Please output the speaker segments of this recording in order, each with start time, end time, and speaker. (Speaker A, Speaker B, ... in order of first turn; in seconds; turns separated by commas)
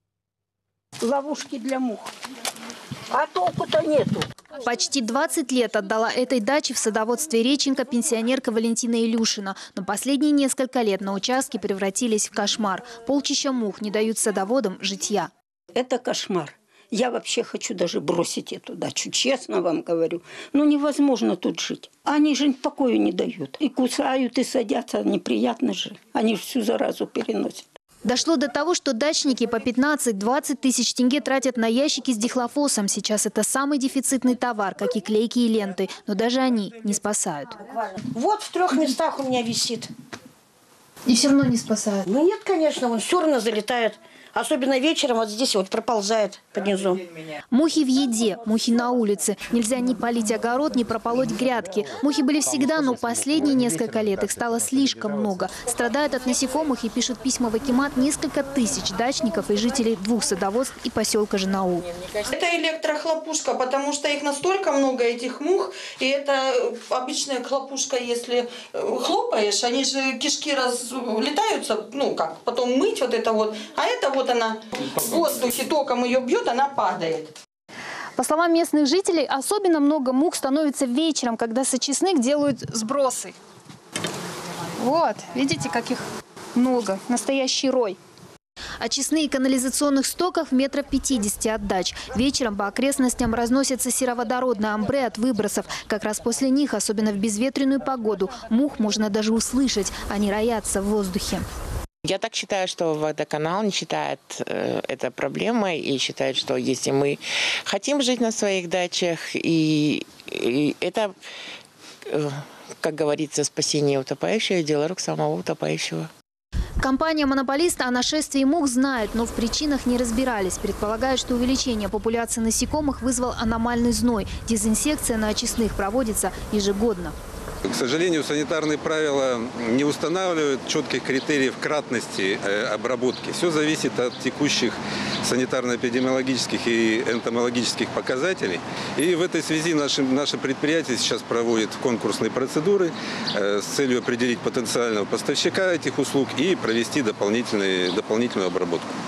Speaker A: 1.0-2.1, Speaker A: 3.1-4.3, Speaker B: 4.6-15.3, Speaker A: 15.7-27.6, Speaker B: 28.1-37.6, Speaker C: 37.7-39.9, Speaker B: 41.0-42.1, Speaker C: 42.1-47.0, Speaker B: 47.5-61.9, Speaker D: 62.2-77.3, Speaker B: 78.2-83.3, Speaker B: 84.8-86.0, Speaker B: 86.5-88.0, Speaker B: 88.8-101.4, Speaker E: 102.0-111.2, Speaker E: 112.0-116.1, Speaker B: 116.8-127.1, Speaker F: 127.7-148.9